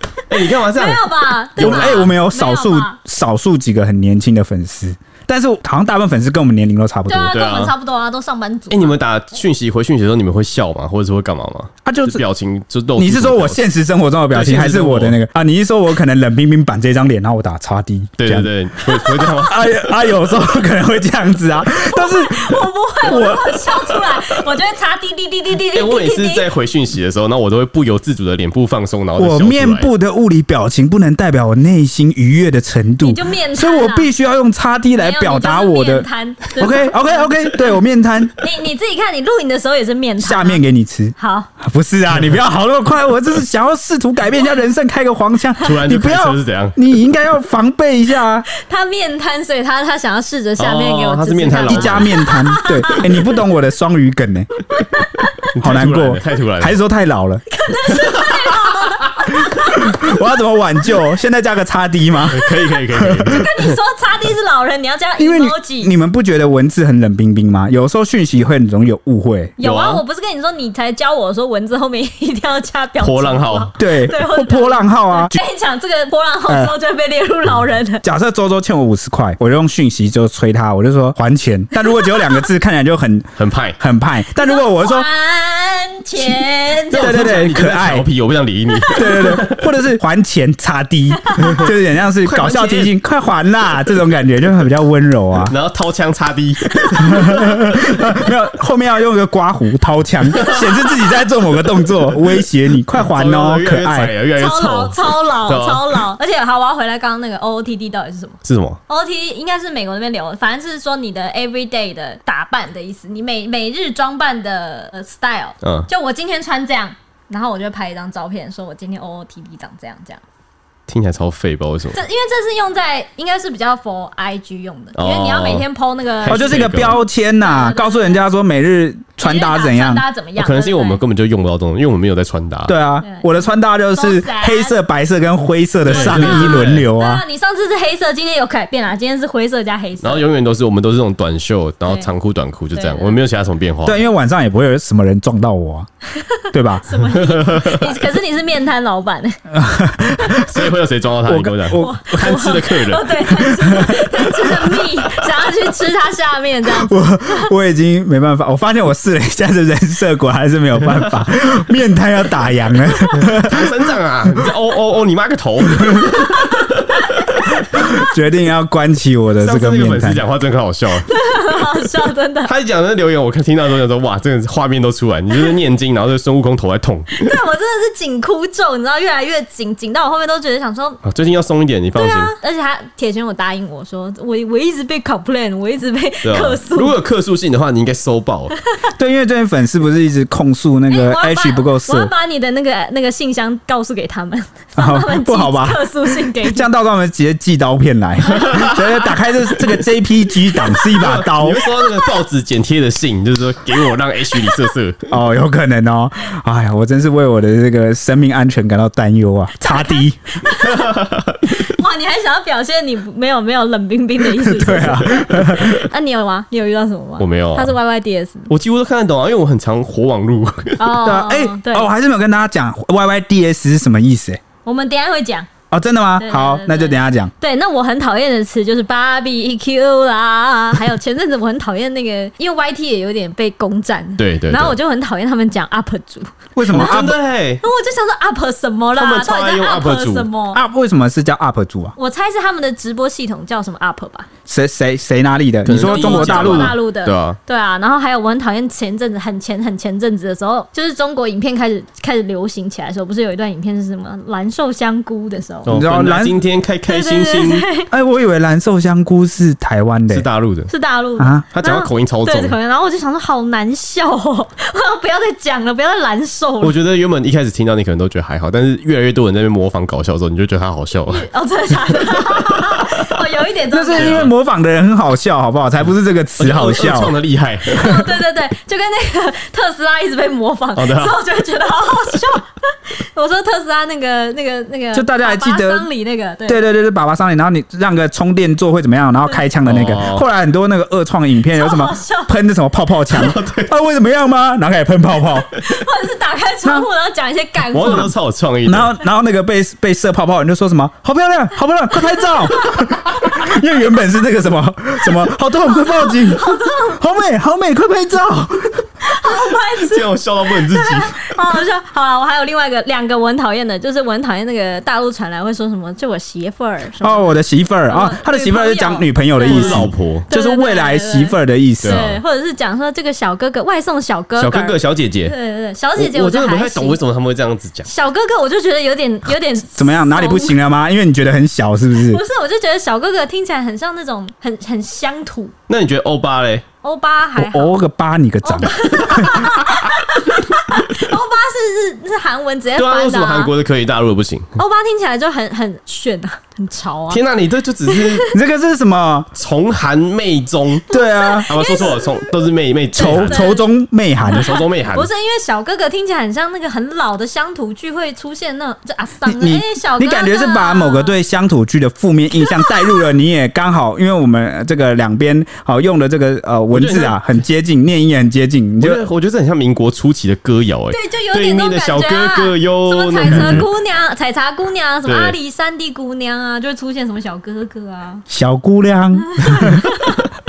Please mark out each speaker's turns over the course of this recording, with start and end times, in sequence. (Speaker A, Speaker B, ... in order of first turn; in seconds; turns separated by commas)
Speaker A: 0.3-1.0, Speaker B: 0.4-3.0, Speaker A: 1.6-2.1, Speaker C: 1.6-7.3, Speaker B: 7.1-9.0, Speaker A: 7.3-7.7, Speaker A: 8.7-13.6, Speaker C: 11.8-12.2, Speaker C: 13.0-22.5, Speaker A: 14.3-15.2, Speaker A: 18.2-19.8, Speaker B: 21.8-26.5, Speaker C: 23.0-23.6, Speaker A: 25.7-29.9, Speaker C: 29.2-38.4, Speaker B: 33.0-34.1, Speaker B: 35.0-37.5, Speaker B: 38.4-40.6, Speaker C: 40.2-48.5, Speaker B: 41.2-41.5, Speaker A: 45.6-46.8, Speaker B: 48.5-53.4, Speaker A: 50.6-52.2, Speaker C: 51.6-54.5, Speaker B: 54.7-55.4, Speaker A: 55.5-56.8, Speaker C: 55.6-57.4, Speaker B: 57.5-60.3, Speaker A: 58.0-58.7, Speaker C: 59.4-63.3, Speaker A: 62.3-63.8, Speaker B: 63.2-65.9, Speaker C: 65.2-69.5, Speaker B: 69.6-78.0, Speaker A: 69.6-70.0, Speaker A: 73.0-73.7, Speaker C: 73.8-75.3, Speaker C: 76.5-76.7, Speaker C: 78.0-85.1, Speaker A: 83.4-83.8, Speaker B: 84.4-87.4, Speaker A: 86.9-89.7, Speaker C: 86.9-88.1, Speaker B: 88.8-89.3, Speaker C: 88.9-95.5, Speaker B: 91.3-91.6, Speaker A: 91.4-91.7, Speaker A: 92.2-92.9, Speaker A: 95.5-98.2, Speaker C: 97.0-104.1, Speaker B: 97.1-97.5, Speaker A: 100.3-100.8, Speaker A: 102.0-102.4, Speaker A: 103.0-106.0, Speaker B: 104.3-120.2, Speaker A: 108.4-108.8, Speaker A: 115.6-115.9, Speaker A: 120.9-122.0, Speaker B: 121.9-128.2, Speaker A: 124.9-125.7, Speaker A: 126.2-127.0, Speaker C: 126.2-130.0, Speaker B: 129.2-131.0, Speaker A: 130.4-132.7, Speaker C: 132.7-137.2, Speaker B: 133.0-133.3, Speaker B: 133.9-134.8, Speaker A: 135.8-136.9, Speaker B: 135.9-140.2, Speaker A: 140.0-144.0, Speaker B: 141.8-142.1, Speaker B: 142.7-143.2, Speaker C: 143.8-145.9, Speaker B: 146.2-149.4, Speaker C: 146.5-146.8, Speaker A: 147.0-147.9, Speaker C: 149.5-150.7, Speaker A: 150.4-153.2, Speaker C: 151.2-152.3, Speaker B: 151.7-157.5, Speaker C: 153.6-154.0, Speaker C: 156.7-163.7, Speaker A: 163.1-167.6, Speaker C: 167.7-170.2, Speaker A: 169.4-171.1, Speaker B: 171.1-172.5, Speaker A: 172.4-177.3, Speaker B: 177.1-181.0, Speaker A: 181.0-182.3, Speaker B: 181.9-186.9, Speaker A: 186.2-188.5, Speaker C: 189.0-192.1, Speaker B: 190.9-196.7, Speaker C: 194.8-201.7, Speaker B: 198.4-198.8, Speaker A: 200.8-205.0, Speaker B: 201.8-202.1, Speaker C: 205.1-210.2, Speaker B: 209.6-218.5, Speaker A: 210.6-211.5, Speaker C: 214.4-215.8, Speaker A: 217.2-217.8, Speaker A: 218.5-220.8, Speaker B: 220.8-221.9, Speaker C: 221.0-224.4, Speaker B: 224.6-225.5, Speaker C: 225.7-227.3, Speaker B: 226.2-237.0, Speaker A: 234.2-234.8, Speaker C: 236.6-237.1, Speaker A: 236.7-237.6, Speaker B: 237.6-240.6, Speaker A: 238.9-240.3, Speaker C: 240.5-241.9, Speaker B: 241.9-244.3, Speaker C: 244.5-246.8, Speaker A: 245.7-247.4, Speaker B: 245.8-255.7, Speaker A: 255.6-257.7, Speaker C: 255.7-256.4, Speaker B: 256.9-257.9, Speaker C: 257.9-260.2, Speaker A: 260.1-260.7, Speaker B: 260.7-266.7, Speaker C: 261.2-261.5, Speaker A: 261.5-262.6, Speaker A: 266.6-271.2, Speaker B: 271.1-274.3, Speaker A: 272.5-273.0, Speaker C: 273.7-277.1, Speaker A: 273.9-274.3, Speaker A: 276.4-277.9, Speaker B: 277.7-286.6, Speaker C: 277.8-278.0, Speaker A: 280.8-281.2, Speaker C: 284.9-285.9, Speaker C: 286.5-295.5, Speaker A: 289.6-290.2, Speaker B: 291.5-292.3, Speaker A: 293.1-293.7, Speaker B: 295.6-298.1, Speaker A: 297.7-298.9, Speaker C: 298.6-308.9, Speaker B: 302.3-302.9, Speaker B: 305.6-307.0, Speaker B: 309.0-317.3, Speaker A: 309.6-311.4, Speaker C: 317.0-322.1, Speaker B: 317.9-327.0, Speaker A: 319.4-320.3, Speaker A: 321.8-322.2, Speaker A: 324.4-325.3, Speaker A: 325.9-327.9, Speaker B: 327.8-330.5, Speaker C: 329.8-332.2, Speaker B: 332.0-335.5, Speaker A: 335.7-336.6, Speaker B: 336.8-337.8, Speaker C: 337.4-339.5, Speaker B: 338.4-343.5, Speaker A: 342.8-344.6, Speaker B: 344.6-347.2, Speaker A: 347.1-348.3, Speaker B: 347.9-348.2, Speaker C: 348.3-349.3, Speaker A: 349.4-350.9, Speaker C: 350.9-351.8, Speaker B: 350.9-352.2, Speaker A: 351.5-353.4, Speaker C: 352.9-354.5, Speaker B: 352.9-353.7, Speaker B: 354.3-361.1, Speaker A: 354.3-355.1, Speaker C: 359.2-369.1, Speaker A: 366.7-367.2, Speaker A: 368.8-373.6, Speaker B: 370.9-378.2, Speaker A: 375.0-375.4, Speaker C: 378.3-379.9, Speaker B: 379.3-380.3